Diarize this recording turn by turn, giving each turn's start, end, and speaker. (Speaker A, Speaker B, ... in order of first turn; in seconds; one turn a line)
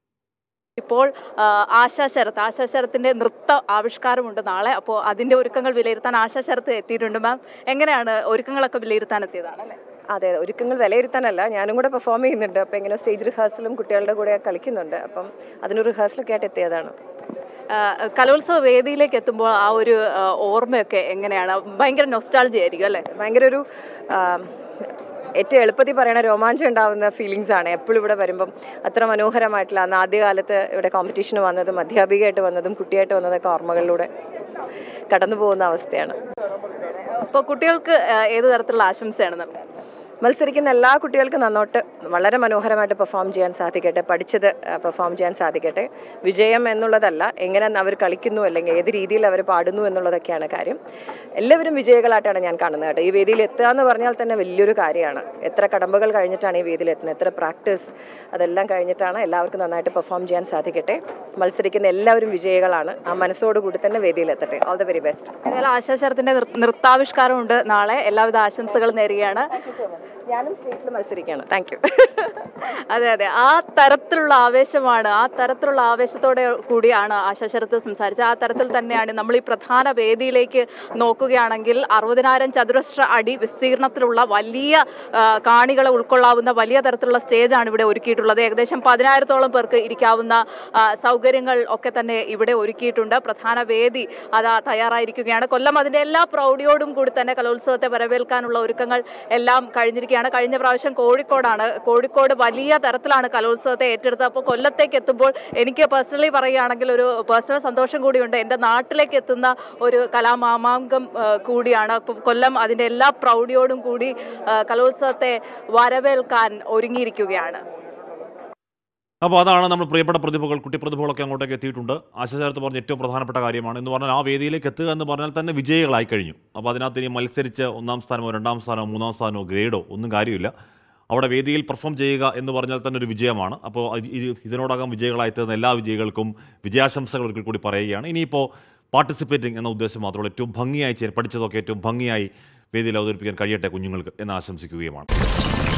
Speaker A: 0.8-9.8
Speaker B: 10.1-16.9
Speaker A: 17.7-23.0
Speaker B: 23.1-24.5
Speaker B: 25.4-34.1
Speaker B: 35.1-36.2
Speaker A: 36.9-39.7
Speaker B: 40.2-50.8
Speaker B: 51.4-65.3
Speaker A: 65.5-69.5
Speaker B: 70.3-72.3
Speaker A: 72.6-117.6
Speaker C: 119.2-130.5
Speaker C: 131.1-145.1